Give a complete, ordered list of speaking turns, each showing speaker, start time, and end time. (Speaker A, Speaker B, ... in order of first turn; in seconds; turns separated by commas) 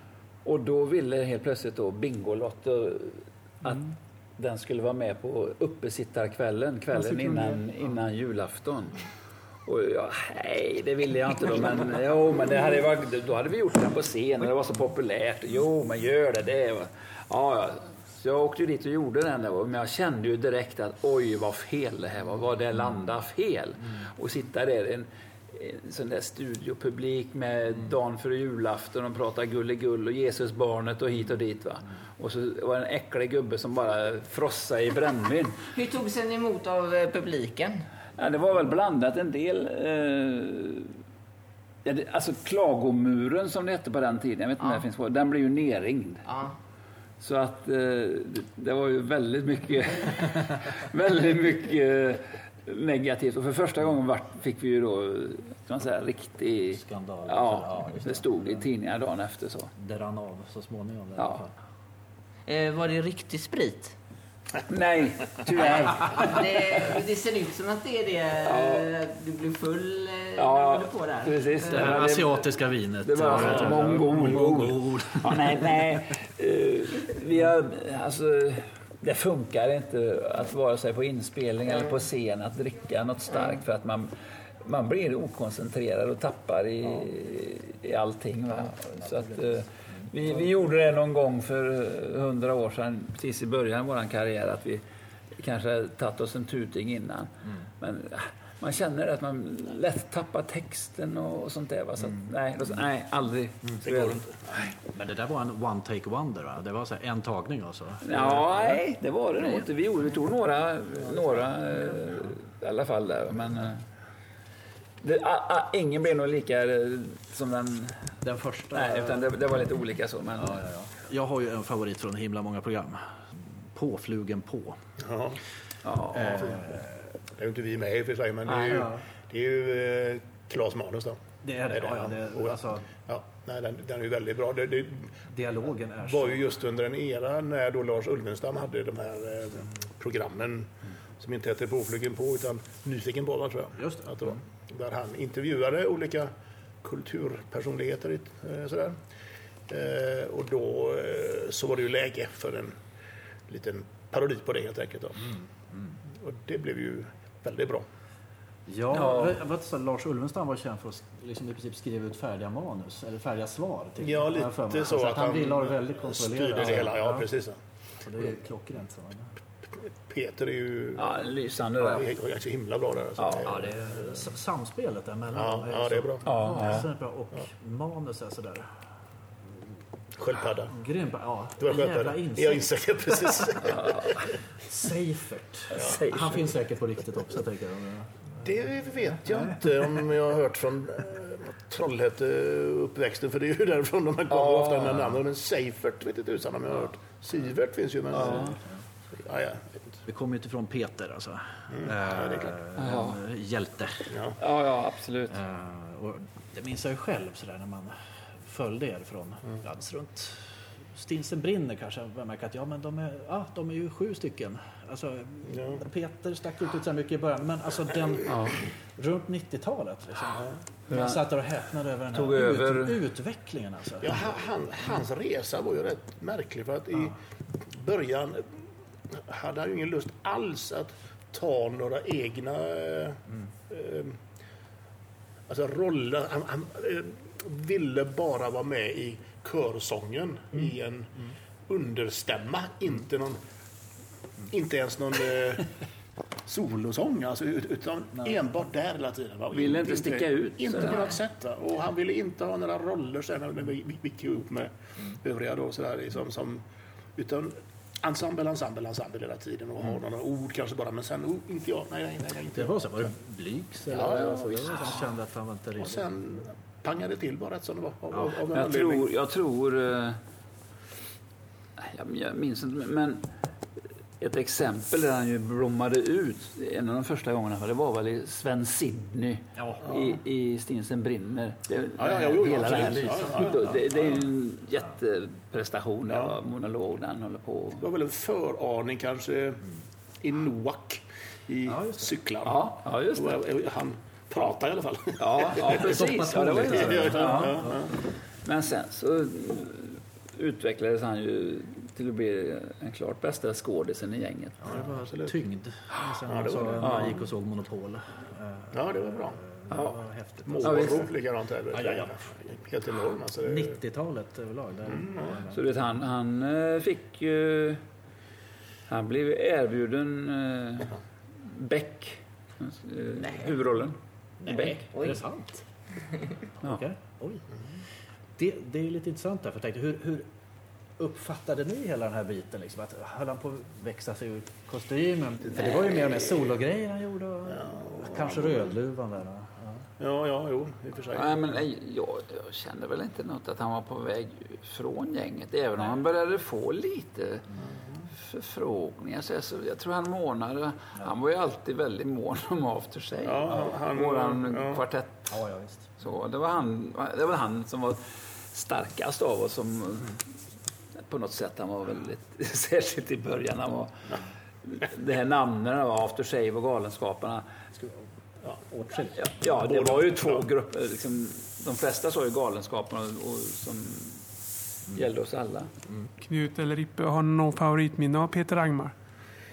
Speaker A: 0.5-9.0, Speaker A: 9.7-35.6, Speaker B: 35.8-37.9, Speaker A: 38.2-41.0, Speaker A: 41.8-46.3, Speaker B: 44.6-44.9, Speaker B: 46.3-46.6, Speaker A: 47.2-59.7, Speaker C: 56.7-58.6, Speaker C: 59.8-61.5, Speaker A: 61.2-61.4, Speaker B: 62.5-64.0, Speaker A: 64.7-66.9, Speaker B: 65.6-72.0, Speaker A: 68.5-68.9, Speaker A: 70.4-72.4, Speaker C: 71.7-76.0, Speaker A: 73.0-84.1, Speaker D: 73.3-73.8, Speaker A: 84.6-94.8, Speaker C: 88.9-89.4, Speaker A: 95.4-104.7, Speaker D: 103.8-104.3, Speaker C: 104.9-108.8, Speaker A: 108.0-113.8, Speaker C: 111.0-112.1, Speaker A: 115.0-118.0, Speaker C: 118.2-119.3, Speaker A: 118.7-120.6, Speaker C: 120.4-124.8, Speaker D: 125.0-125.4, Speaker A: 125.8-126.7, Speaker C: 126.1-127.0, Speaker D: 127.3-135.1, Speaker A: 128.5-128.9, Speaker C: 128.7-129.0, Speaker C: 131.4-132.9, Speaker C: 135.3-136.4, Speaker D: 136.1-146.3, Speaker C: 143.8-144.3, Speaker D: 146.8-149.0, Speaker D: 149.7-152.8, Speaker D: 153.5-155.3, Speaker D: 156.2-157.9, Speaker C: 158.7-167.3, Speaker A: 158.9-159.4, Speaker D: 164.0-167.6, Speaker C: 168.0-169.3, Speaker D: 169.7-171.1, Speaker A: 171.0-172.1, Speaker D: 171.8-173.7, Speaker A: 173.2-173.7, Speaker C: 173.5-178.7, Speaker D: 175.3-176.3, Speaker A: 176.2-176.9, Speaker D: 180.2-180.7, Speaker C: 180.7-182.6, Speaker D: 181.6-184.3, Speaker A: 183.7-184.3, Speaker C: 184.7-188.2, Speaker A: 185.7-186.5, Speaker D: 188.4-198.6, Speaker A: 194.3-195.2, Speaker A: 198.1-198.5, Speaker C: 198.2-198.8, Speaker D: 199.1-200.0, Speaker C: 200.1-204.2, Speaker D: 201.7-202.6, Speaker A: 202.8-203.2, Speaker D: 204.1-204.4, Speaker A: 204.4-205.4, Speaker C: 205.3-224.3, Speaker D: 215.5-215.8, Speaker A: 218.3-218.6, Speaker A: 220.9-221.3, Speaker A: 222.1-223.0, Speaker D: 224.0-228.5, Speaker D: 229.1-234.2, Speaker D: 235.5-241.1, Speaker D: 241.7-243.4, Speaker D: 244.5-245.7, Speaker D: 246.5-256.6, Speaker A: 249.5-251.2, Speaker D: 257.2-263.1, Speaker C: 262.5-266.1, Speaker D: 263.9-264.9, Speaker D: 265.8-269.1, Speaker A: 268.5-270.2, Speaker A: 271.8-273.3, Speaker A: 274.2-287.9, Speaker C: 279.6-280.0, Speaker D: 282.0-283.7, Speaker C: 282.6-284.2, Speaker D: 286.1-286.4, Speaker D: 287.8-289.6, Speaker D: 290.2-295.9, Speaker C: 291.7-292.1, Speaker A: 292.4-293.4, Speaker A: 295.2-297.7, Speaker C: 295.6-297.8, Speaker D: 296.8-297.9, Speaker A: 298.4-304.8, Speaker C: 304.6-311.0, Speaker D: 304.8-305.3, Speaker D: 306.3-307.0, Speaker A: 306.8-307.2, Speaker D: 308.7-309.4, Speaker A: 309.7-310.0, Speaker D: 310.5-313.8, Speaker A: 310.6-311.0, Speaker C: 311.7-312.2, Speaker C: 313.4-315.6, Speaker D: 314.9-315.4, Speaker A: 315.5-317.8, Speaker A: 318.9-324.8, Speaker B: 324.5-325.2, Speaker C: 324.5-325.6, Speaker C: 326.6-327.4, Speaker C: 328.4-330.3, Speaker C: 331.0-339.8, Speaker D: 337.6-338.7, Speaker D: 340.0-341.4, Speaker A: 341.1-347.4, Speaker A: 348.2-355.3, Speaker D: 353.2-354.8, Speaker C: 355.3-355.9, Speaker A: 356.0-358.0, Speaker A: 358.5-360.2, Speaker A: 361.0-363.9, Speaker A: 364.6-367.4, Speaker C: 368.7-369.3, Speaker A: 369.2-374.2, Speaker D: 369.5-370.5, Speaker A: 374.9-375.7, Speaker E: 376.2-378.9